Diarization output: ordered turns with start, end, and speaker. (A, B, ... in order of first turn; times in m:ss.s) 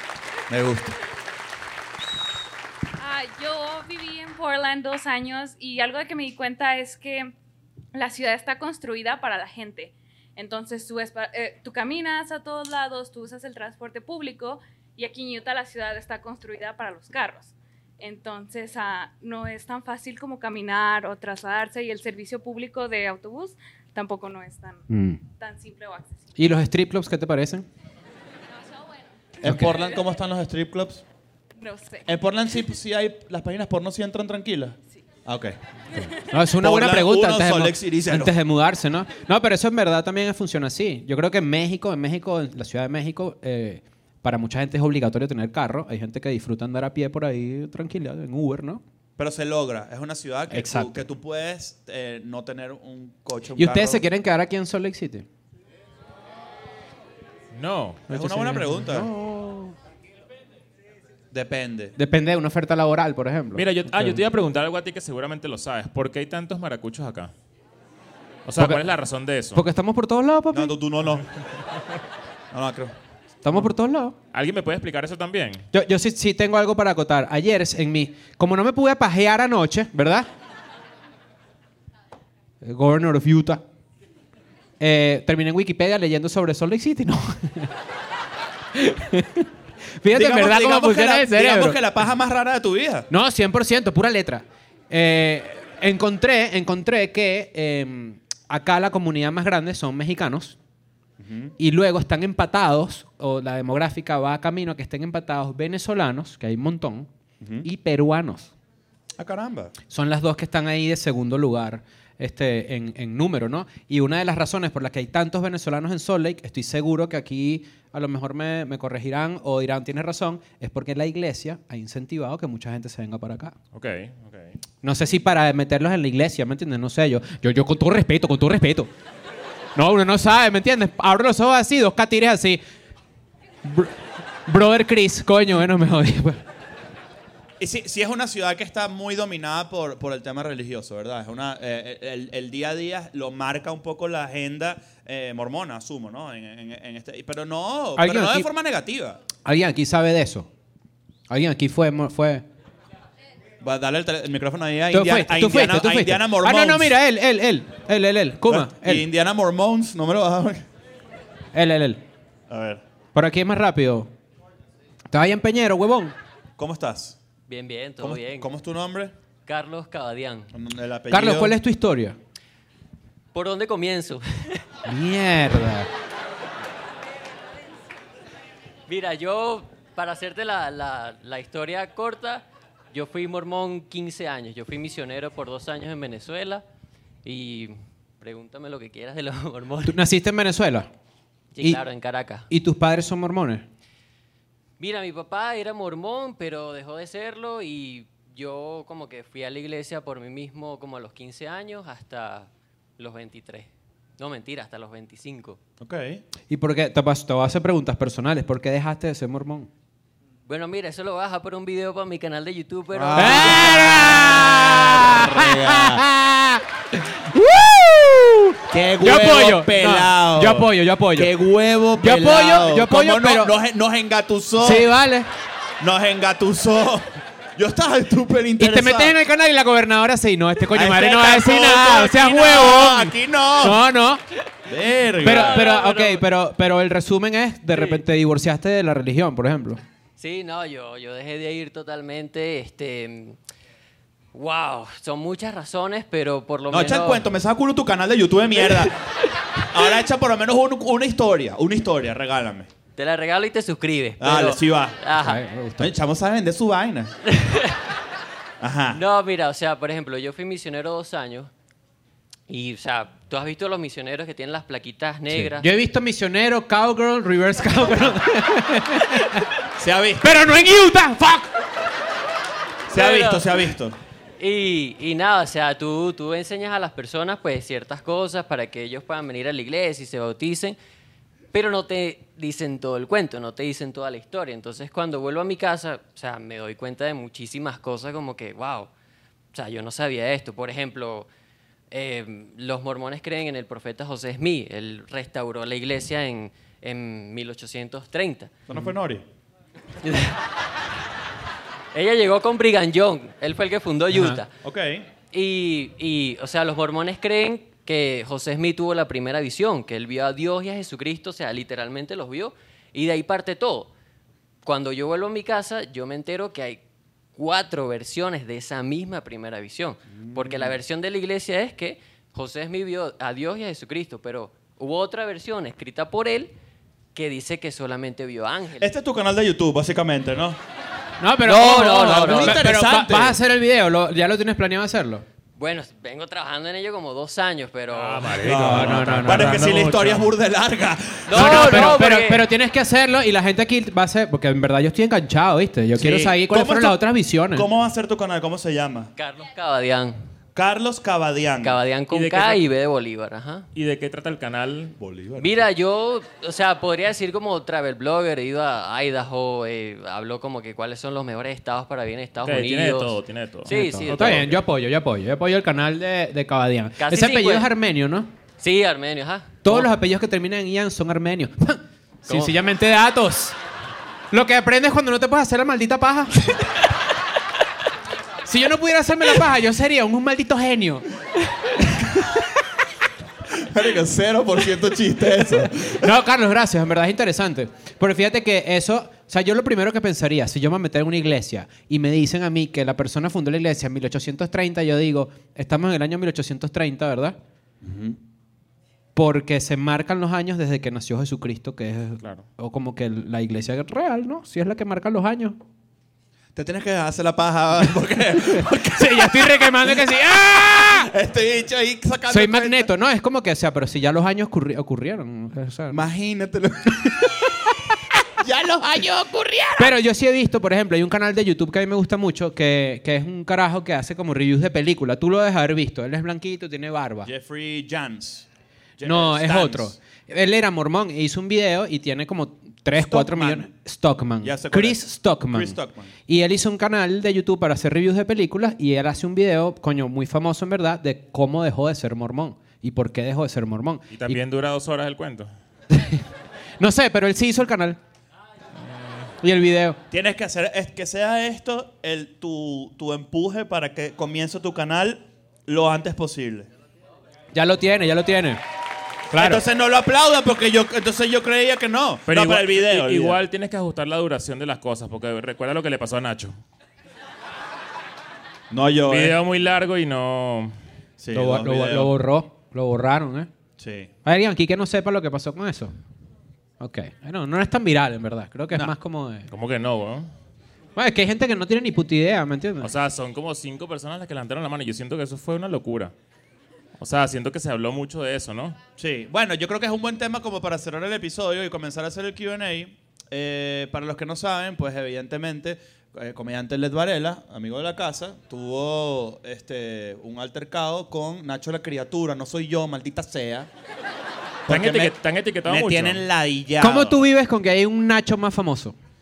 0:00.5-0:00.9 A
0:03.0-0:07.3 B
0:07.9-0:24.9 B
0:24.9-0:25.2 C
0:25.4-0:26.3 B
0:26.4-0:27.7 C
0:28.6-0:29.1 B
0:29.4-0:31.0 A
0:29.4-0:29.7 C
0:31.6-0:32.1 B
0:32.1-0:35.6 A
0:36.1-0:48.8 C
0:36.6-0:38.4 A
0:49.2-0:54.0 A
0:50.5-0:51.1 C
0:53.6-0:55.3 C
0:57.5-0:58.1 D
0:58.1-0:59.1 A
0:58.1-0:59.8 C
1:01.3-1:02.0 A
1:02.0-1:04.2 C
1:03.6-1:07.3 D
1:08.5-1:09.6 D
1:09.6-1:10.7 C
1:10.5-1:11.3 A
1:12.5-1:12.9 A
1:13.4-1:14.2 C
1:14.3-1:15.7 D
1:15.7-1:20.3 C
1:22.6-1:23.6 C
1:24.8-1:27.7 C
1:28.7-1:31.8 C
1:30.1-1:33.1 A
1:33.1-1:40.6 C
1:41.2-1:41.5 A
1:41.6-1:47.1 C
1:47.4-1:47.7 A
1:47.6-1:48.5 C
1:49.2-1:49.7 A
1:49.9-2:03.6 C
2:03.7-2:04.6 D
2:04.8-2:08.9 C
2:09.8-2:12.6 C
2:13.6-2:16.4 C
2:17.6-2:29.2 A
2:28.0-2:28.5 C
2:29.4-2:30.5 C
2:31.3-2:32.4 C
2:33.6-2:37.0 A
2:34.9-2:39.1 C
2:38.4-2:40.6 A
2:41.5-2:42.0 C
2:42.5-2:42.8 A
2:43.1-2:44.1 C
2:45.1-2:46.2 C
2:46.6-2:47.2 A
2:47.5-2:48.5 E
2:48.0-2:49.1 A
2:49.5-2:50.5 E
2:50.5-2:51.6 A
2:51.1-2:52.2 C
2:53.3-2:54.6 E
2:54.9-2:55.9 C
2:58.9-3:06.6 E
3:07.2-3:10.0 E
3:09.8-3:10.9 C
3:11.5-3:12.5 E
3:12.5-3:13.6 C
3:14.8-3:25.6 E
3:25.8-3:26.2 A
3:26.5-3:29.7 C
3:30.5-3:34.3 E
3:32.9-3:36.0 A
3:33.2-3:41.3 C
3:38.7-3:44.9 A
3:42.0-3:43.6 C
3:44.6-3:45.3 C
3:45.8-3:49.2 A
3:48.6-3:54.2 C
3:50.7-3:53.8 A
3:54.7-3:55.7 A
3:55.2-3:56.2 E
3:55.2-3:59.8 C
3:57.7-3:58.0 E
4:00.2-4:03.4 E
4:04.3-4:07.2 E
4:06.7-4:09.0 A
4:09.6-4:12.7 A
4:13.0-4:15.4 E
4:14.2-4:15.0 A
4:15.2-4:15.9 C
4:15.8-4:17.1 A
4:17.2-4:17.8 E
4:18.6-4:19.0 A
4:18.9-4:21.5 E
4:22.5-4:25.7 E
4:25.3-4:29.5 C
4:29.8-4:30.4 A
4:30.2-4:31.6 C
4:32.9-4:34.0 A
4:32.9-4:33.5 E
4:34.4-4:40.8 E
4:41.5-4:48.9 E
4:49.5-4:51.3 E
4:51.9-4:58.6 E
4:58.7-4:59.2 A
5:00.0-5:00.4 E
5:01.9-5:04.5 E
5:04.1-5:04.4 C
5:04.6-5:05.1 A
5:05.3-5:13.9 E
5:14.6-5:16.8 E
5:17.4-5:26.5 E
5:20.2-5:20.8 A
5:27.2-5:28.9 E
5:28.8-5:30.6 A
5:31.2-5:35.2 C
5:31.4-5:32.7 E
5:31.6-5:33.4 A
5:35.6-5:38.4 E
5:37.9-5:40.3 D
5:38.4-5:41.9 A
5:38.6-5:39.6 C
5:41.3-5:42.4 E
5:41.3-5:47.7 C
5:45.9-5:49.1 A
5:49.2-5:50.2 E
5:50.6-5:51.8 A
5:51.6-5:53.7 E
5:52.1-5:52.6 D
5:53.8-5:55.0 D
5:55.0-5:55.6 A
5:55.4-6:04.5 E
6:02.4-6:04.6 D
6:03.7-6:08.3 C
6:07.0-6:07.7 E
6:08.6-6:09.9 E
6:09.6-6:13.6 C
6:12.3-6:12.6 E
6:14.3-6:16.6 C
6:18.4-6:21.0 C
6:21.8-6:22.5 C
6:23.5-6:26.1 A
6:25.4-6:37.4 C
6:37.8-6:38.2 A
6:39.2-6:45.6 C
6:46.6-6:52.9 A
6:48.8-6:51.1 C
6:52.3-6:56.0 C
6:55.9-6:57.6 A
6:58.4-6:59.9 A
6:59.8-7:07.3 C
7:07.2-7:08.5 A
7:09.0-7:10.0 A
7:09.0-7:24.4 C
7:12.9-7:13.7 A
7:14.4-7:16.1 A
7:24.1-7:25.5 D
7:25.9-7:26.2 C
7:26.8-7:28.0 C
7:28.8-7:29.3 D
7:29.4-7:30.0 C
7:30.1-7:36.7 A
7:37.5-7:38.6 C
7:39.3-7:39.6 C
7:39.4-7:43.4 A
7:42.3-7:46.6 D
7:48.7-7:49.4 A
7:49.1-7:50.7 D
7:51.2-7:52.1 A
7:51.3-7:53.5 C
7:53.8-7:54.1 A
7:54.2-7:55.9 C
7:56.8-7:59.5 C
7:59.5-8:00.3 D
8:01.0-8:02.9 C
8:02.8-8:06.1 D
8:07.0-8:08.8 D
8:09.0-8:23.7 A
8:24.7-8:25.2 A
8:24.7-8:26.2 D
8:25.6-8:27.2 A
8:26.8-8:28.9 C